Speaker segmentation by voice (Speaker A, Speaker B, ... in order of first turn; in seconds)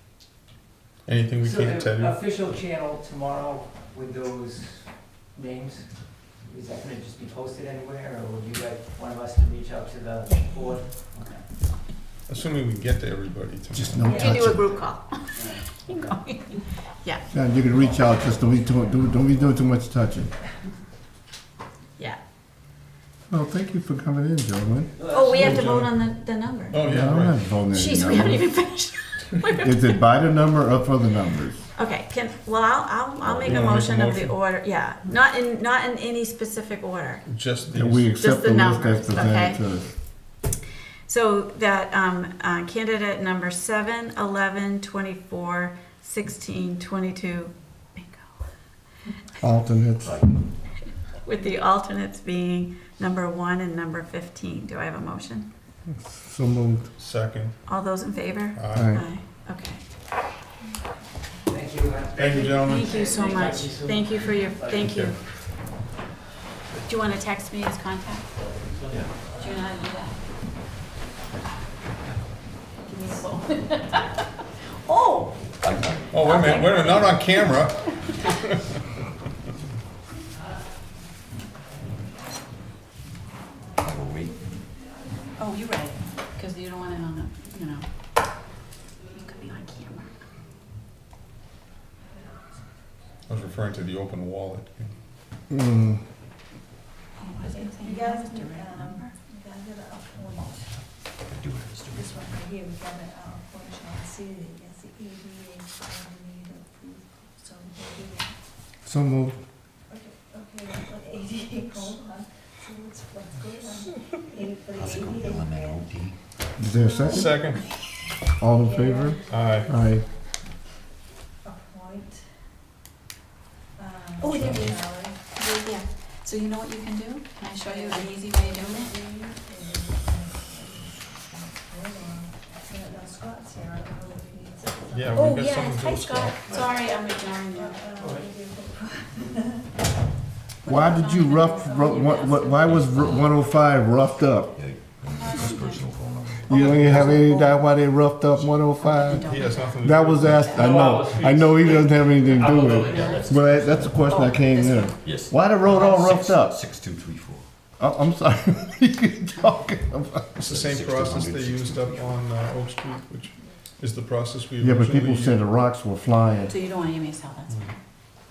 Speaker A: 1.1-2.2, 12.3-14.5, 25.4-25.9, 26.7-27.4, 33.4-34.4, 37.3-38.1, 57.0-57.5, 58.6-58.9, 62.2-62.9, 64.8-65.1, 76.1-78.6, 93.3-94.9, 117.1-117.6, 119.3-119.7, 134.9-136.4, 146.5-147.3, 149.2-151.9, 160.3-165.4
Speaker B: 1.4-11.5, 25.0-25.6, 61.5-64.8, 150.7-151.2, 152.4-153.2
Speaker C: 13.7-14.7, 17.3-20.3, 23.3-24.9, 26.8-28.5, 29.6-31.6, 37.7-39.9, 49.4-50.2, 55.9-56.9, 58.7-59.0, 95.5-96.0, 108.8-109.3, 116.6-117.3, 118.3-120.0, 140.7-144.5, 146.5-156.6, 157.8-160.3, 164.6-166.5
Speaker D: 14.1-17.2, 25.1-26.8, 27.7-29.9, 31.7-37.2, 38.2-39.6, 41.1-48.3, 51.1-55.5, 57.6-59.8, 62.3-65.2, 66.8-68.3, 69.4-70.2, 72.9-74.3, 74.8-75.4, 76.2-78.2, 85.4-87.9, 89.1-90.1, 97.2-99.1, 124.2-128.9, 135.2-137.9, 140.6-143.3, 145.2-145.8, 146.6-147.5, 148.8-149.7, 150.3-150.8, 154.1-155.0, 166.5-167.8
Speaker E: 33.2-33.6, 50.0-50.5, 68.7-69.1, 75.6-77.1, 83.8-84.4, 101.1-102.3, 114.7-116.2, 136.5-136.8, 142.7-143.2, 144.6-146.8, 152.2-154.4, 155.0-157.4, 160.4-162.2
Speaker F: 97.9-100.5, 102.1-108.3, 110.3-115.5, 118.8-119.7, 121.4-122.3, 123.8-125.1, 128.0-135.2, 137.7-139.6